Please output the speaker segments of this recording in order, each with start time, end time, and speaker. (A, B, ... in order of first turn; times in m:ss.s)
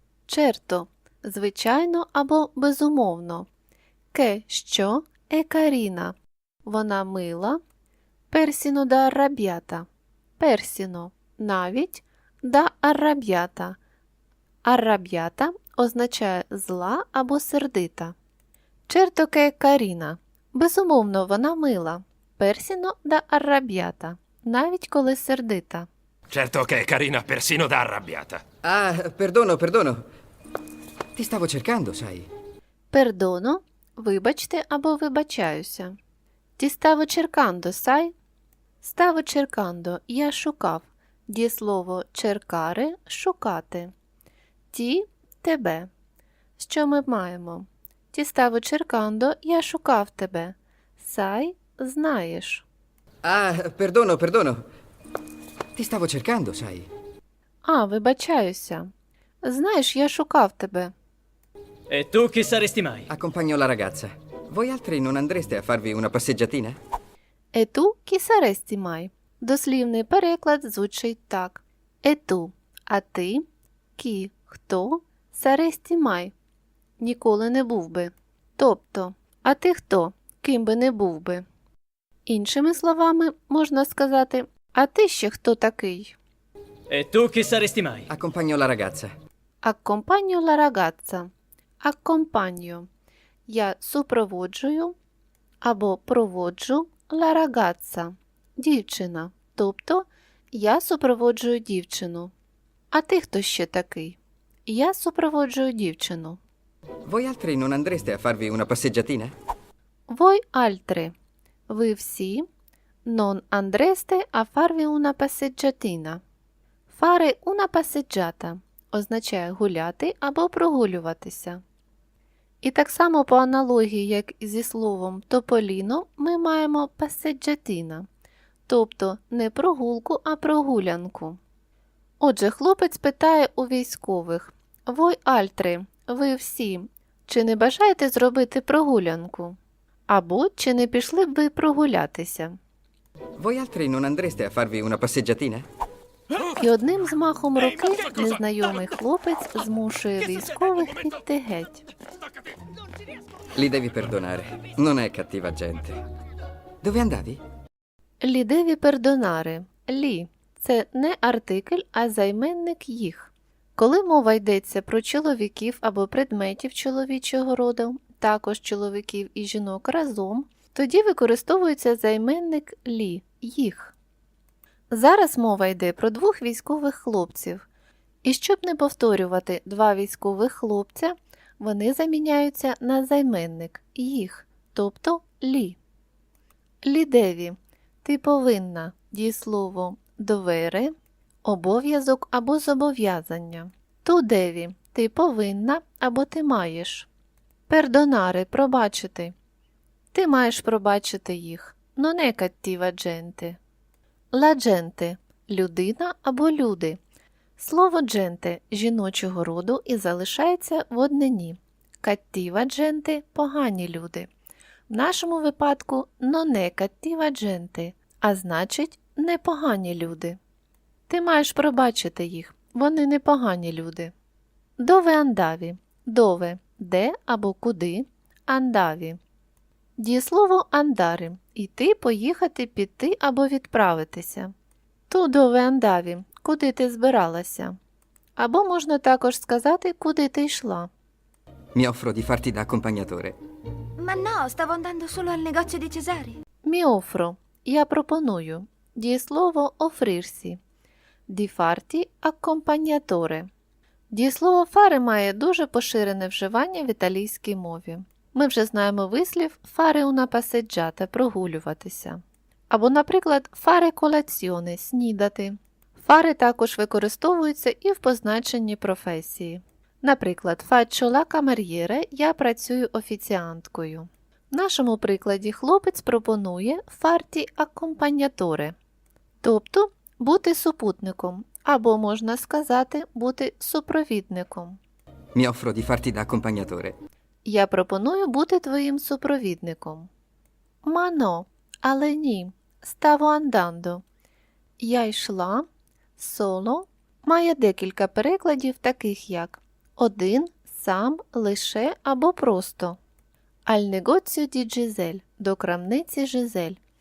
0:00.3-0:03.5 A
0:04.1-0:07.6 A
0:08.3-0:09.9 A
0:10.4-0:13.8 A
0:14.6-0:18.1 A
0:18.9-0:25.9 A
0:26.3-0:28.4 B
0:28.6-0:30.0 C
0:31.2-0:32.3 C
0:32.9-0:36.0 A
0:36.6-0:38.1 A
0:38.8-0:43.9 A
0:44.7-0:45.9 A
0:46.6-0:52.6 A
0:53.2-0:54.6 C
0:55.8-0:56.9 C
0:57.6-0:58.9 A
0:59.4-1:00.9 A
1:01.9-1:03.1 D
1:03.1-1:06.8 C
1:07.5-1:13.4 A
1:14.0-1:16.3 A
1:17.0-1:21.4 A
1:22.2-1:26.2 A
1:26.9-1:28.1 D
1:28.1-1:29.1 C
1:29.6-1:32.9 A
1:33.5-1:34.9 A
1:35.6-1:42.3 A
1:42.9-1:46.4 A
1:47.1-1:49.3 C
1:50.1-1:51.1 A
1:51.7-1:52.4 A
1:53.0-1:56.2 A
1:56.9-2:01.6 A
2:02.6-2:08.1 A
2:08.7-2:11.4 A
2:12.2-2:19.6 A
2:20.1-2:22.6 A
2:23.4-2:25.7 C
2:26.6-2:31.9 A
2:33.6-2:36.0 C
2:36.8-2:37.4 C
2:38.2-2:53.9 A
2:54.9-2:57.6 A
2:58.2-3:05.8 A
3:06.8-3:10.9 A
3:11.4-3:17.1 A
3:17.7-3:19.3 A
3:20.1-3:23.6 A
3:24.3-3:27.0 A
3:27.6-3:34.3 A
3:34.9-3:40.4 A
3:41.1-3:44.1 A
3:44.8-3:49.2 A
3:50.0-3:54.5 A
3:55.1-3:57.8 A
3:58.4-4:00.9 A
4:01.8-4:03.4 C
4:04.0-4:06.4 E
4:06.6-4:10.6 A
4:11.3-4:13.5 A
4:14.1-4:38.8 A
4:39.4-4:44.8 A
4:45.3-4:47.0 C
4:47.4-4:50.1 A
4:50.8-4:54.0 A
4:54.8-4:55.7 A
4:56.2-5:03.0 A
5:03.7-5:06.8 A